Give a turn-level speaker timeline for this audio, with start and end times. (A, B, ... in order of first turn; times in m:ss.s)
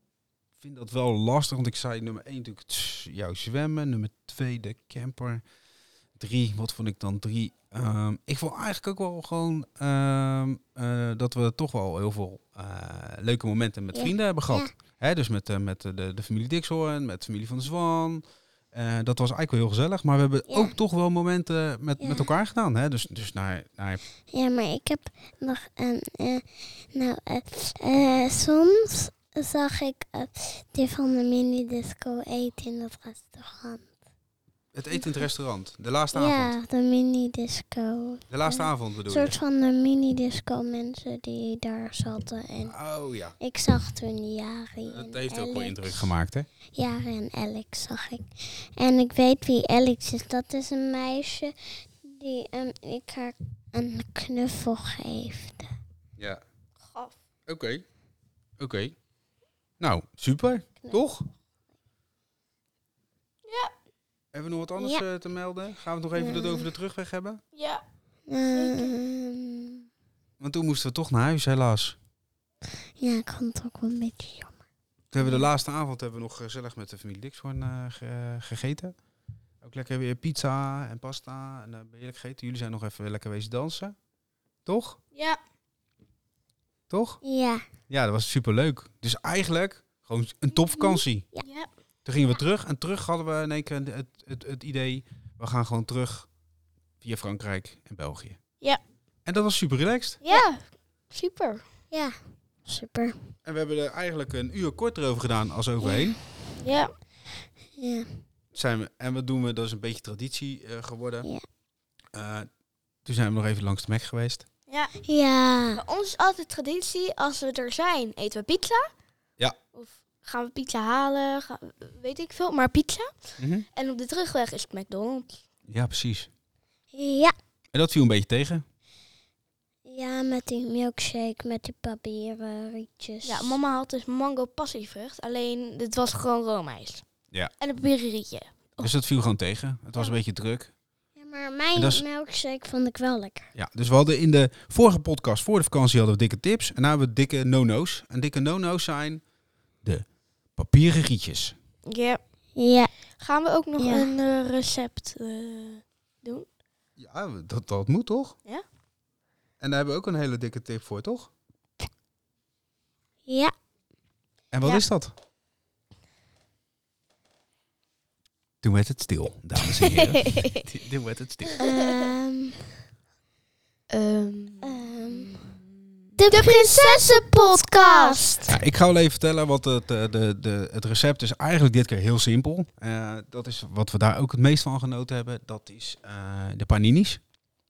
0:00.6-0:05.4 A
0:06.2-0:24.0 A
0:13.9-0:14.7 B
0:20.5-0:20.7 B
0:22.0-0:22.3 B
0:24.3-0:33.8 B
0:34.7-0:36.5 A
0:36.1-0:42.8 B
0:38.3-0:39.4 A
0:42.6-0:43.4 A
0:43.4-0:46.1 B
0:44.9-0:46.5 A
0:46.7-0:55.7 B
0:56.8-0:57.2 C
0:57.5-0:57.8 A
0:58.6-0:59.0 A
0:59.8-1:01.3 A
1:03.4-1:03.7 C
1:04.3-1:07.4 A
1:04.8-1:05.0 B
1:06.2-1:06.6 B
1:07.5-1:07.8 C
1:08.3-1:09.9 B
1:08.5-1:08.9 C
1:10.4-1:12.0 A
1:13.0-1:14.5 B
1:15.1-1:18.9 A
1:19.6-1:23.9 A
1:24.6-1:25.0 A
1:26.9-1:27.2 A
1:27.2-1:27.6 B
1:27.9-1:31.3 A
1:32.0-1:36.3 A
1:37.0-1:38.4 A
1:39.2-1:40.2 A
1:40.2-1:41.6 C
1:41.9-1:43.2 B
1:43.4-1:46.2 A
1:45.8-1:46.1 B
1:46.6-1:46.9 C
1:47.8-1:48.1 B
1:48.5-1:51.3 A
1:52.1-1:52.5 A
1:53.0-1:54.4 A
1:54.7-1:54.9 C
1:55.0-1:55.8 B
1:55.7-1:58.9 C
1:59.7-2:03.1 C
2:03.4-2:03.6 A
2:03.7-2:05.4 C
2:05.7-2:06.3 A
2:06.9-2:07.3 B
2:07.7-2:08.6 A
2:09.8-2:13.6 B
2:13.2-2:17.0 C
2:17.6-2:18.9 C
2:18.8-2:20.7 A
2:21.2-2:23.5 B
2:21.7-2:22.0 A
2:23.5-2:29.2 A
2:29.8-2:31.5 A
2:31.9-2:32.2 C
2:32.6-2:32.9 B
2:33.2-2:36.5 C
2:33.8-2:34.1 B
2:37.0-2:38.4 A
2:39.6-2:41.3 A
2:43.2-2:43.5 B
2:44.5-2:45.1 A
2:48.6-2:51.6 A
2:50.0-2:50.6 C
2:51.6-2:52.6 B
2:51.6-2:51.8 C
2:53.9-2:55.6 C
2:54.6-2:55.4 B
2:56.2-2:57.0 B
2:56.2-2:58.4 C
2:57.5-2:58.6 B
2:58.5-3:07.2 A